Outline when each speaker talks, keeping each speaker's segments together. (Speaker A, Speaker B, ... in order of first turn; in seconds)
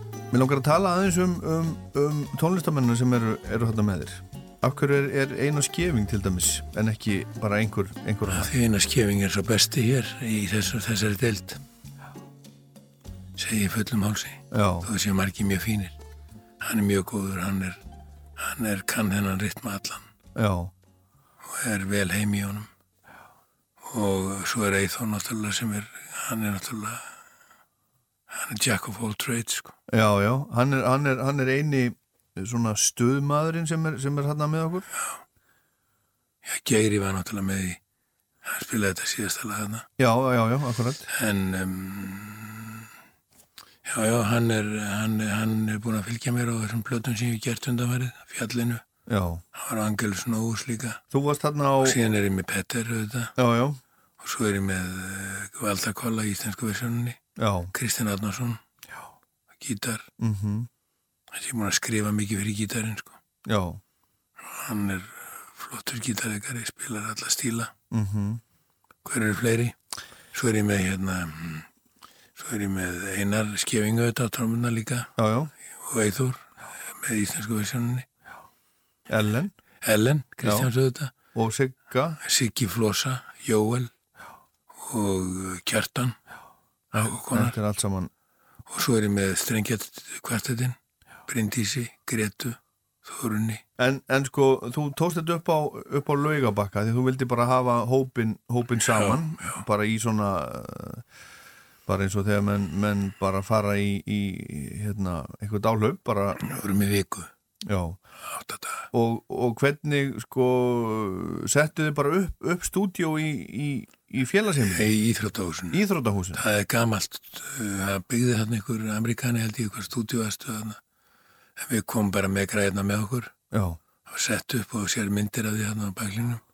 Speaker A: 0.3-8.5, 14.5-14.9, 20.4-20.7, 29.9-34.9, 40.0-41.1, 49.1-49.4, 51.1-52.0, 53.4-53.8, 57.4-57.7, 60.2-60.7, 63.5-63.8, 67.9-68.4, 75.2-75.5, 79.1-79.5, 80.4-80.7, 81.2-82.2, 87.0-88.1, 93.8-101.1, 101.9-106.4, 107.7-108.0, 108.9-114.9, 115.7-116.4, 123.5-123.8
Speaker B: 8.3-11.6, 13.4-16.0, 16.6-17.8, 18.4-20.1, 21.4-22.7, 23.8-27.1, 28.3-29.8, 35.0-35.2, 36.5-37.8, 38.4-39.9, 41.1-42.9, 43.9-48.8, 49.5-51.0, 51.8-53.4, 54.2-57.2, 57.7-58.6, 59.6-60.1, 61.3-63.2, 64.4-67.7, 69.0-69.8, 70.3-71.7, 72.3-78.1, 79.8-81.1, 82.2-83.9, 84.8-86.2, 86.9-87.6, 88.7-93.6, 98.9-99.6, 106.4-107.3, 108.2-108.9, 114.7-115.8, 116.3-120.8, 121.6-123.3, 124.1-126.4